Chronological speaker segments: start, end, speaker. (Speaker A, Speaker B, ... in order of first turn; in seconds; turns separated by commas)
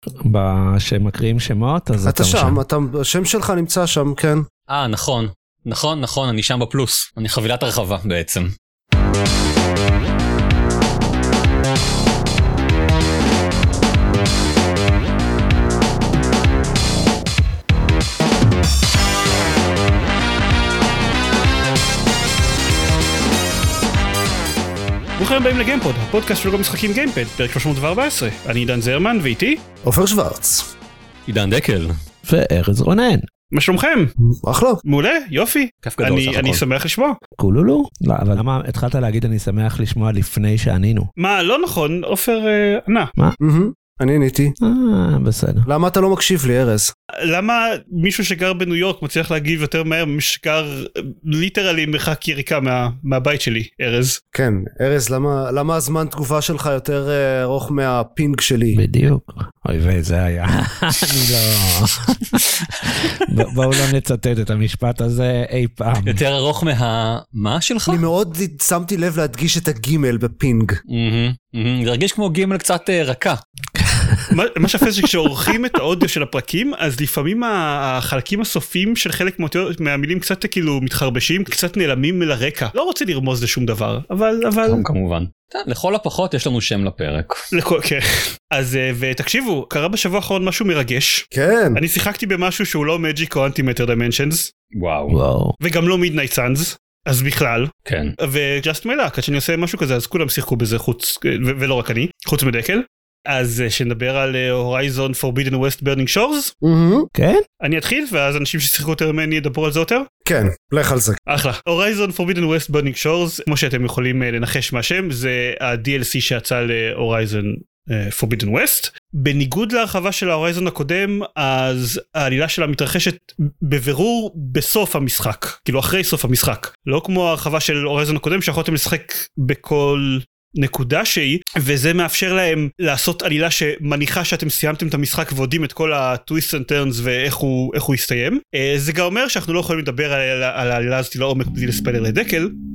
Speaker A: 0.2-2.6, Speaker B: 2.0-4.5, Speaker C: 4.7-8.5, Speaker D: 25.2-29.6, Speaker B: 29.8-30.7, Speaker C: 31.3-31.9, Speaker A: 32.2-33.2, Speaker D: 33.5-34.1, Speaker B: 34.3-34.8, Speaker D: 34.8-37.2, Speaker C: 35.8-36.6, Speaker A: 37.4-41.1, Speaker D: 41.2-43.1, Speaker B: 43.4-44.5, Speaker A: 44.6-45.7, Speaker B: 45.6-46.9, Speaker D: 47.2-54.2, Speaker B: 54.3-58.8, Speaker A: 58.7-66.2, Speaker C: 66.0-68.0, Speaker B: 67.9-70.8, Speaker C: 70.9-73.4, Speaker A: 73.8-74.3, Speaker D: 74.3-84.8, Speaker C: 84.6-87.4, Speaker D: 87.5-94.5, Speaker B: 91.3-91.8, Speaker C: 94.7-95.2, Speaker A: 95.1-95.5, Speaker D: 95.6-106.5, Speaker C: 97.8-98.1, Speaker B: 106.6-107.1, Speaker A: 107.1-107.4, Speaker D: 107.6-110.0, Speaker B: 110.2-111.2, Speaker D: 111.3-142.5